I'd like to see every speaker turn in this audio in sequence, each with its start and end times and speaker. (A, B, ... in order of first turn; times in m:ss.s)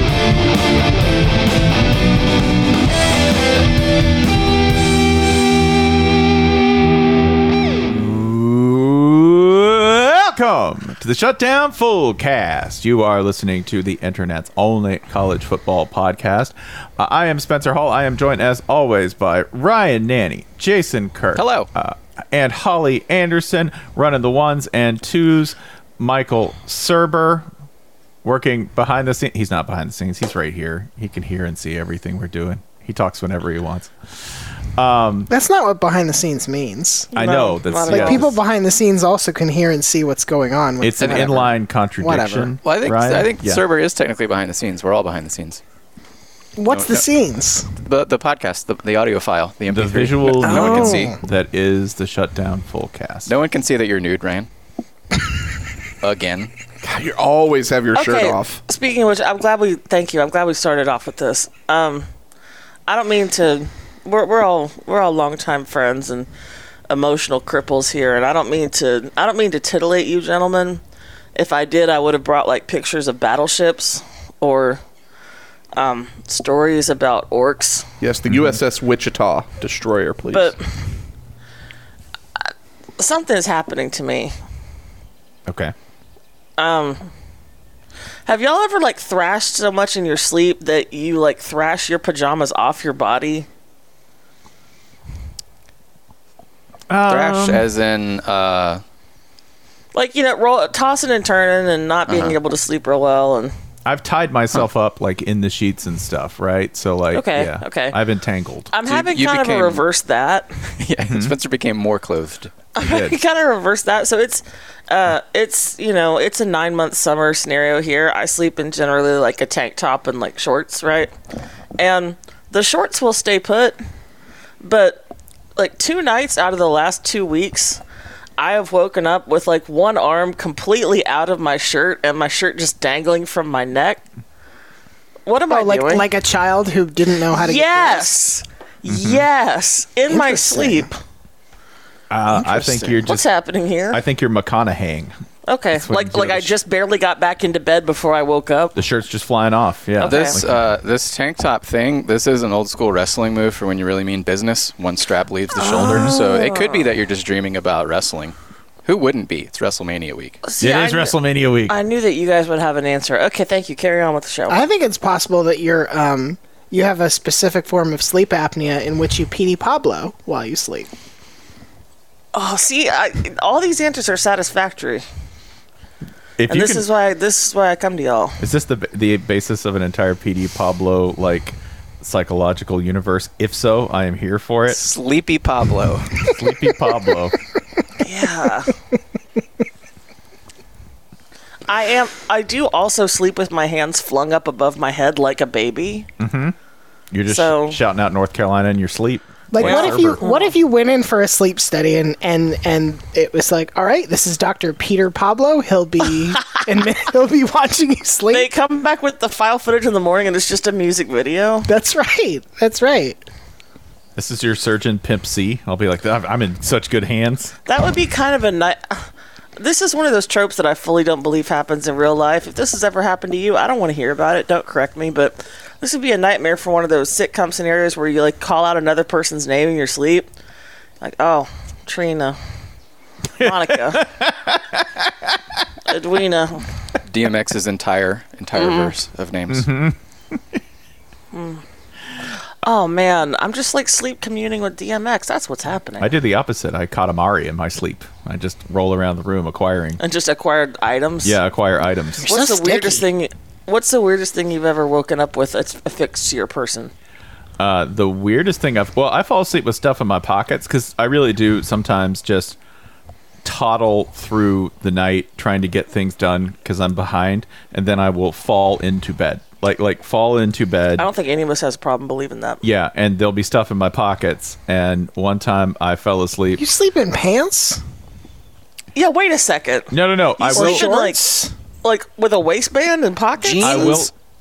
0:07.8-0:27.5 A
0:21.4-0:21.7 B
0:28.2-0:33.9 A
0:34.8-0:35.3 A
0:35.3-0:37.1 C
0:37.1-0:38.3 D
0:37.2-0:38.3 A
0:37.9-0:42.6 C
0:40.8-0:43.6 A
0:41.0-0:41.3 B
0:42.6-0:45.6 B
0:46.6-0:47.7 C
0:46.7-0:47.1 B
0:47.8-0:51.2 B
0:49.7-0:53.3 A
0:50.4-0:51.2 C
0:53.3-0:54.5 B
0:56.0-0:56.5 B
0:56.8-0:58.6 E
0:57.9-1:02.1 D
1:02.9-1:06.3 D
1:06.9-1:10.8 D
1:11.4-1:14.8 D
1:15.8-1:17.9 D
1:18.0-1:20.6 E
1:18.3-1:18.6 A
1:20.3-1:20.6 D
1:23.0-1:24.4 D
1:25.5-1:25.7 A
1:26.6-1:27.1 D
1:28.3-1:33.5 D
1:36.9-1:37.7 A
1:37.1-1:38.8 B
1:39.9-1:43.5 D
1:42.1-1:42.4 B
1:43.8-1:48.7 A
1:47.1-1:48.0 D
1:48.7-1:50.5 D
1:48.8-1:49.8 B
1:50.8-1:52.5 B
1:51.1-1:51.3 A
1:52.8-2:01.1 D
1:52.8-1:53.2 A
2:01.8-2:03.8 D
2:04.6-2:07.8 D
2:08.4-2:14.0 D
2:15.3-2:16.1 D
2:15.5-2:18.2 C
2:17.3-2:21.0 D
2:18.9-2:19.3 A
2:20.1-2:20.9 C
2:22.1-2:23.2 A
2:22.3-2:23.0 C
2:23.0-2:24.0 D
2:23.9-2:25.2 A
2:25.5-2:28.8 D
2:25.8-2:26.5 A
2:28.8-2:30.6 A
2:30.0-2:30.4 D
2:30.0-2:40.4 B
2:35.6-2:36.9 D
2:35.7-2:36.2 A
2:40.4-2:44.6 D
2:40.6-2:41.8 A
2:44.5-2:50.9 C
2:52.3-2:55.1 D
2:56.4-2:56.8 A
2:56.5-2:58.4 D
2:58.4-3:04.8 A
3:04.7-3:06.2 B
3:06.2-3:07.4 A
3:08.0-3:08.7 D
3:11.7-3:16.1 D
3:16.2-3:16.6 A
3:17.1-3:20.2 A
3:17.3-3:17.8 D
3:19.5-3:28.5 C
3:19.6-3:20.5 D
3:26.2-3:26.6 D
3:28.3-3:31.7 D
3:31.7-3:33.2 C
3:34.2-3:37.6 A
3:37.7-3:50.3 D
3:51.0-3:52.4 D
3:53.4-3:54.0 D
3:53.4-3:55.3 A
3:55.9-3:56.6 D
3:57.1-3:59.7 B
3:58.6-3:59.0 D
3:59.5-4:00.4 A
4:01.3-4:01.6 D
4:02.6-4:06.1 D
4:06.0-4:10.0 A
4:10.0-4:11.4 D
4:11.2-4:12.3 A
4:12.2-4:13.1 C
4:12.3-4:16.9 D
4:17.6-4:22.6 A
4:23.4-4:31.1 A
4:31.0-4:32.6 D
4:32.6-4:36.6 A
4:36.6-4:37.8 C
4:39.0-4:41.2 D
4:39.9-4:40.9 A
4:40.5-4:41.5 C
4:41.8-4:44.0 D
4:43.4-4:44.1 B
4:43.6-4:44.1 A